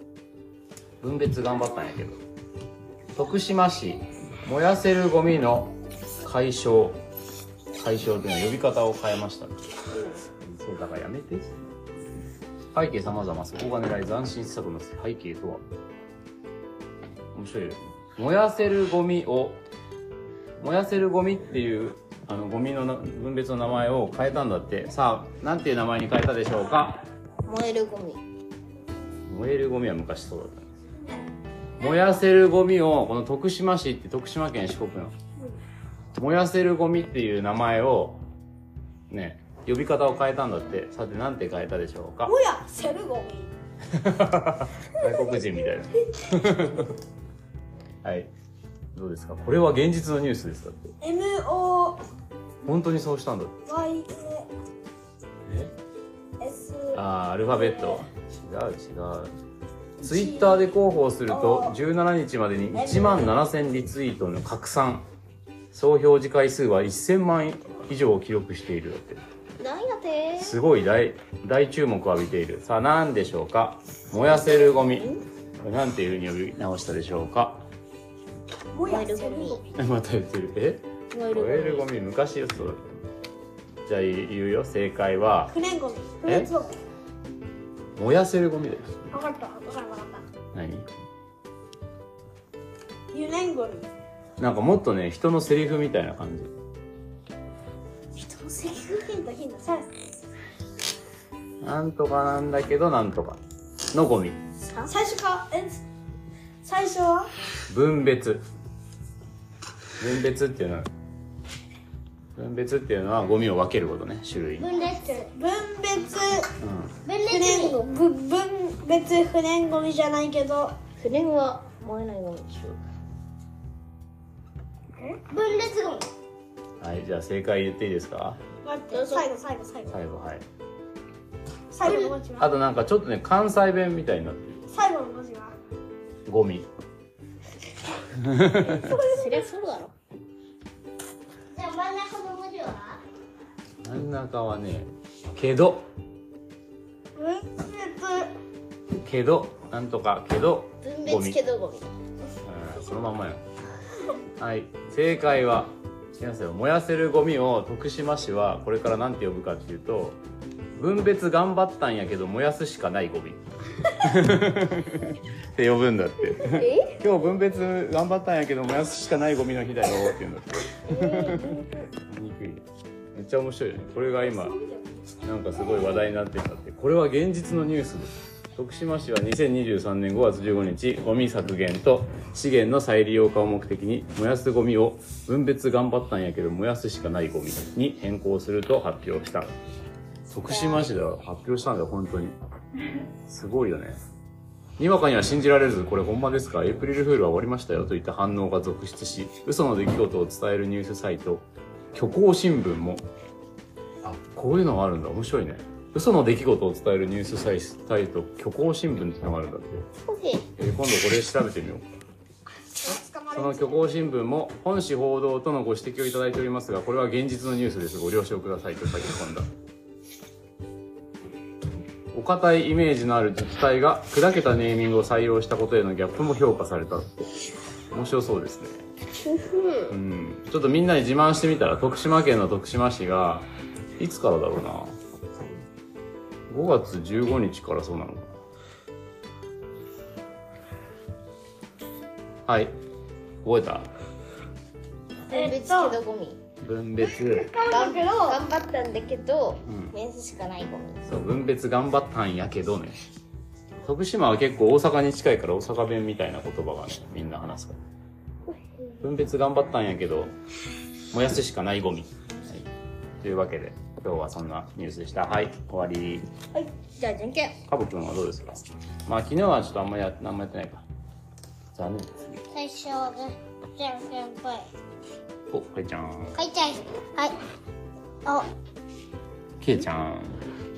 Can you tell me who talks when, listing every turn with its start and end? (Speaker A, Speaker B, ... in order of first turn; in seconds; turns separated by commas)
Speaker A: 1.0-2.2, Speaker A: 3.1-5.7, Speaker A: 6.2-7.0, Speaker A: 7.8-9.7, Speaker B: 9.9-10.2, Speaker A: 10.4-11.5, Speaker A: 12.7-15.6, Speaker A: 17.3-19.6, Speaker A: 20.6-27.1, Speaker B: 27.4-28.2, Speaker A: 29.3-30.7, Speaker A: 31.8-35.1, Speaker A: 36.2-38.2, Speaker A: 39.1-42.4, Speaker C: 42.3-43.5, Speaker A: 43.9-46.9, Speaker A: 48.0-48.3, Speaker A: 48.9-50.9, Speaker C: 51.0-52.0, Speaker A: 52.6-53.6, Speaker C: 53.7-54.5, Speaker A: 55.5-55.7, Speaker C: 56.4-58.0, Speaker A: 56.9-59.3, Speaker C: 60.0-60.6, Speaker A: 60.0-65.0, Speaker C: 61.3-61.8, Speaker C: 62.7-63.4, Speaker A: 65.7-69.2, Speaker B: 69.6-70.6, Speaker A: 70.4-77.6, Speaker B: 74.5-75.2, Speaker C: 78.7-79.8, Speaker B: 78.8-79.6, Speaker A: 79.8-82.8, Speaker B: 81.1-81.9, Speaker A: 83.9-85.6, Speaker C: 85.5-86.8, Speaker A: 86.2-86.5, Speaker A: 88.0-89.0, Speaker C: 89.1-90.2, Speaker A: 90.5-90.9, Speaker C: 93.1-93.9, Speaker A: 94.4-96.5, Speaker C: 98.2-99.9, Speaker A: 101.6-103.4, Speaker A: 103.9-104.4, Speaker C: 104.9-105.8, Speaker C: 106.6-107.3, Speaker A: 107.7-108.4, Speaker A: 110.0-110.9, Speaker A: 112.4-114.7, Speaker D: 114.6-115.3, Speaker C: 114.8-116.5, Speaker A: 116.6-117.0, Speaker D: 117.0-117.8, Speaker C: 117.3-120.7, Speaker B: 121.0-122.8, Speaker D: 125.3-126.0, Speaker A: 126.8-128.4, Speaker C: 128.6-130.0, Speaker B: 128.9-129.3, Speaker A: 129.9-130.4, Speaker C: 131.7-132.5, Speaker A: 131.8-134.6, Speaker C: 134.7-135.6, Speaker A: 136.3-136.7, Speaker A: 138.1-138.9, Speaker C: 138.7-139.4, Speaker B: 138.9-139.9, Speaker D: 141.5-143.0, Speaker A: 143.8-145.9, Speaker C: 147.2-148.3, Speaker A: 149.0-151.4, Speaker B: 150.8-151.9, Speaker A: 152.4-153.4, Speaker A: 154.4-160.2, Speaker A: 160.8-174.6, Speaker B: 166.4-167.0, Speaker B: 170.9-171.9, Speaker C: 174.2-175.1, Speaker A: 175.2-189.5, Speaker A: 190.3-192.4, Speaker B: 190.5-190.9, Speaker A: 193.2-194.0, Speaker A: 194.8-203.1, Speaker A: 204.0-209.9, Speaker B: 210.1-210.5, Speaker A: 210.6-211.8, Speaker C: 212.8-213.9, Speaker A: 213.3-219.5, Speaker A: 222.1-227.1, Speaker A: 227.9-228.8, Speaker B: 229.3-229.9, Speaker A: 229.9-234.9, Speaker A: 236.5-238.3, Speaker A: 242.5-242.7, Speaker A: 243.4-243.9, Speaker B: 245.3-246.4, Speaker C: 245.3-246.0, Speaker A: 246.6-247.5, Speaker C: 247.2-248.4, Speaker B: 247.7-251.0, Speaker A: 249.6-249.9, Speaker A: 251.1-253.0, Speaker A: 253.8-257.8, Speaker A: 259.0-260.3, Speaker A: 261.1-262.7, Speaker A: 263.2-266.3, Speaker B: 266.6-267.6, Speaker A: 267.7-270.9, Speaker A: 271.7-272.4, Speaker D: 272.5-274.6, Speaker A: 275.5-276.4, Speaker D: 276.4-277.4, Speaker A: 279.6-280.4